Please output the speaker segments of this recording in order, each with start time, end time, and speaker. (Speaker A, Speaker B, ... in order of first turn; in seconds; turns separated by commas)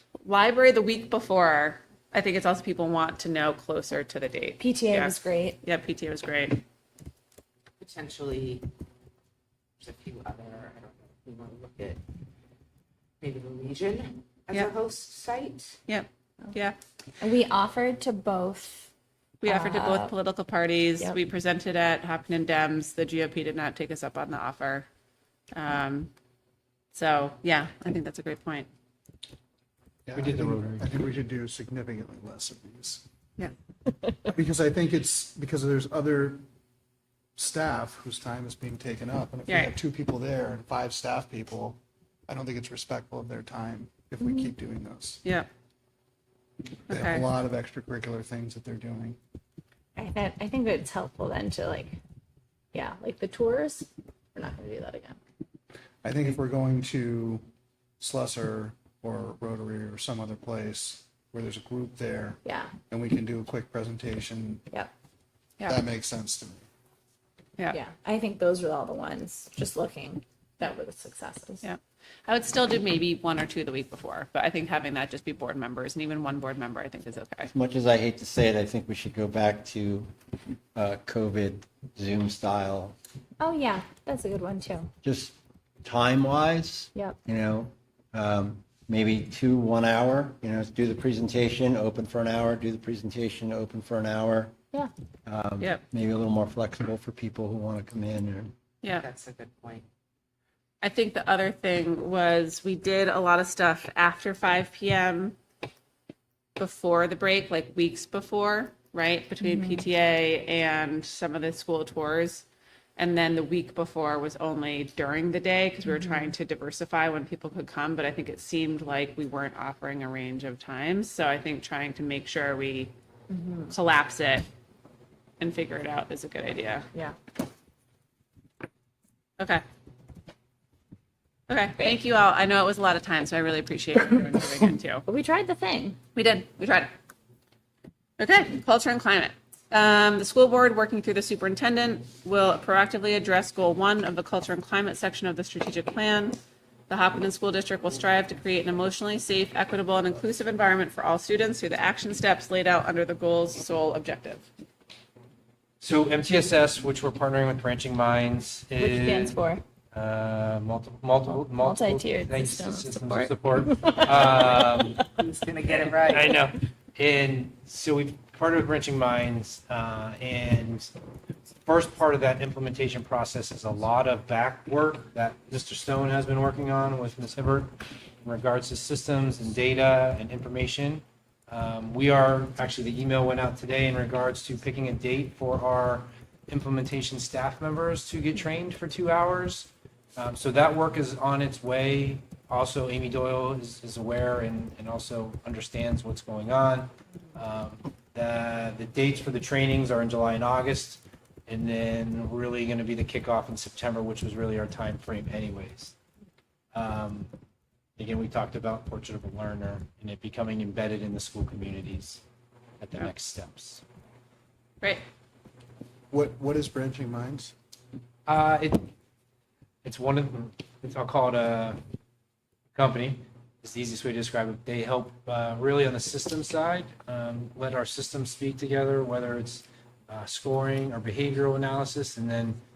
Speaker A: 0.2-6.6, Speaker B: 4.6-5.6, Speaker C: 7.8-8.6, Speaker C: 9.8-12.0, Speaker C: 13.2-15.7, Speaker A: 15.9-16.8, Speaker B: 17.2-18.9, Speaker A: 19.4-24.9, Speaker B: 19.4-20.1, Speaker A: 25.5-26.1, Speaker A: 26.9-28.7, Speaker D: 30.1-33.0, Speaker E: 30.1-30.9, Speaker D: 34.2-36.4, Speaker D: 37.4-45.2, Speaker A: 39.5-39.7, Speaker A: 46.9-47.2, Speaker D: 46.9-49.2, Speaker B: 50.0-52.0, Speaker B: 52.7-55.2, Speaker D: 56.0-57.4, Speaker D: 58.0-64.7, Speaker B: 62.5-62.7, Speaker D: 65.7-66.6, Speaker B: 67.7-71.6, Speaker A: 71.6-77.5, Speaker F: 77.5-80.1, Speaker F: 80.8-83.0, Speaker B: 83.4-84.9, Speaker F: 85.0-94.6, Speaker F: 95.3-98.5, Speaker C: 99.0-99.8, Speaker A: 100.8-105.4, Speaker A: 106.6-112.5, Speaker B: 109.4-109.8, Speaker A: 113.0-122.9, Speaker B: 115.9-116.3, Speaker B: 123.3-123.7, Speaker A: 123.7-124.5, Speaker A: 125.4-126.9, Speaker A: 131.5-135.0, Speaker B: 135.1-136.0, Speaker A: 136.2-136.9, Speaker A: 138.2-146.4, Speaker A: 146.9-154.5, Speaker E: 155.8-165.0, Speaker B: 158.8-159.6, Speaker B: 161.3-165.0, Speaker C: 165.2-166.2, Speaker E: 165.7-170.9, Speaker E: 171.6-177.7, Speaker E: 178.2-205.9, Speaker E: 206.7-207.3, Speaker E: 208.0-212.2, Speaker E: 212.8-213.8, Speaker D: 216.1-217.5, Speaker E: 218.3-218.9, Speaker E: 219.8-221.8, Speaker E: 222.7-232.6